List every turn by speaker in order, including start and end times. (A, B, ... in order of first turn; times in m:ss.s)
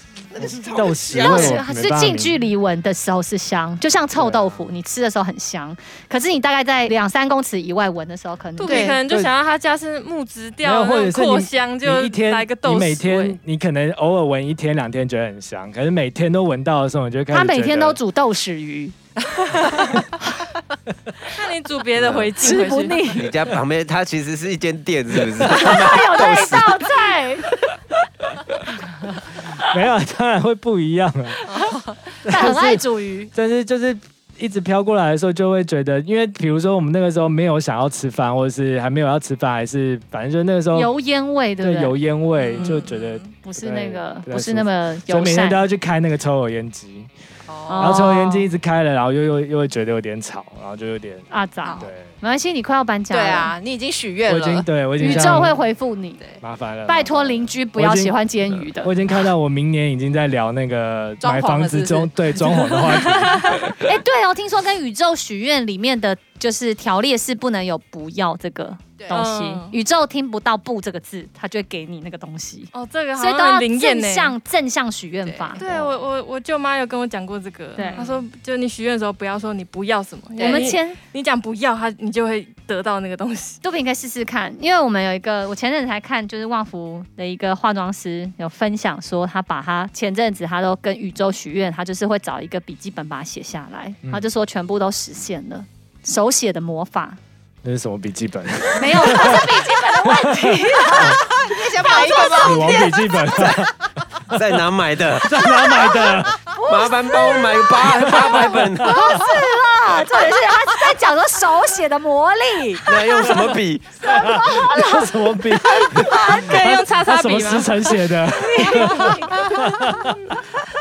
0:00.3-0:01.6 A
0:00.4-0:02.4 B
0:01.1-0:09.0 C
0:01.1-0:01.6 D
0:04.2-0:04.7 B
0:08.6-0:13.4 E
0:08.7-0:08.9 D
0:08.8-0:09.3 B
0:10.6-0:18.0 B
0:17.3-0:19.0 C
0:21.3-0:23.1 E
0:22.4-0:23.3 C
0:23.2-0:26.9 A
0:25.5-0:27.5 C
0:29.6-0:31.4 B
0:32.2-0:33.3 C
0:32.2-0:40.9 B
0:40.7-0:42.0 C
0:41.6-0:47.1 B
0:42.4-0:43.3 D
0:42.6-0:42.9 C
0:43.4-0:45.6 C
0:47.5-0:48.0 D
0:47.7-0:48.5 C
0:47.8-0:51.3 B
0:51.3-0:53.6 C
0:51.8-0:52.1 B
0:53.1-0:55.6 D
0:54.3-0:55.6 B
0:55.0-0:56.2 C
0:56.4-0:58.2 B
0:56.9-0:58.9 C
0:58.8-1:03.6 B
1:01.2-1:03.5 D
1:03.8-1:15.6 C
1:09.1-1:09.8 E
1:12.7-1:14.4 E
1:15.2-1:15.6 D
1:15.6-1:23.6 E
1:17.8-1:18.0 C
1:17.9-1:18.2 D
1:20.4-1:20.8 D
1:20.4-1:21.0 C
1:23.6-1:37.2 C
1:37.6-1:41.2 B
1:38.8-1:42.7 C
1:41.0-1:43.7 D
1:42.4-1:44.5 B
1:44.3-1:45.4 A
1:45.1-1:46.4 B
1:46.5-1:53.3 C
1:46.7-1:49.2 A
1:48.8-1:49.1 B
1:49.1-1:49.5 D
1:52.9-1:54.5 A
1:54.1-1:56.5 C
1:54.1-2:00.2 B
1:56.1-1:57.9 E
1:58.4-2:00.1 C
1:58.7-1:59.2 E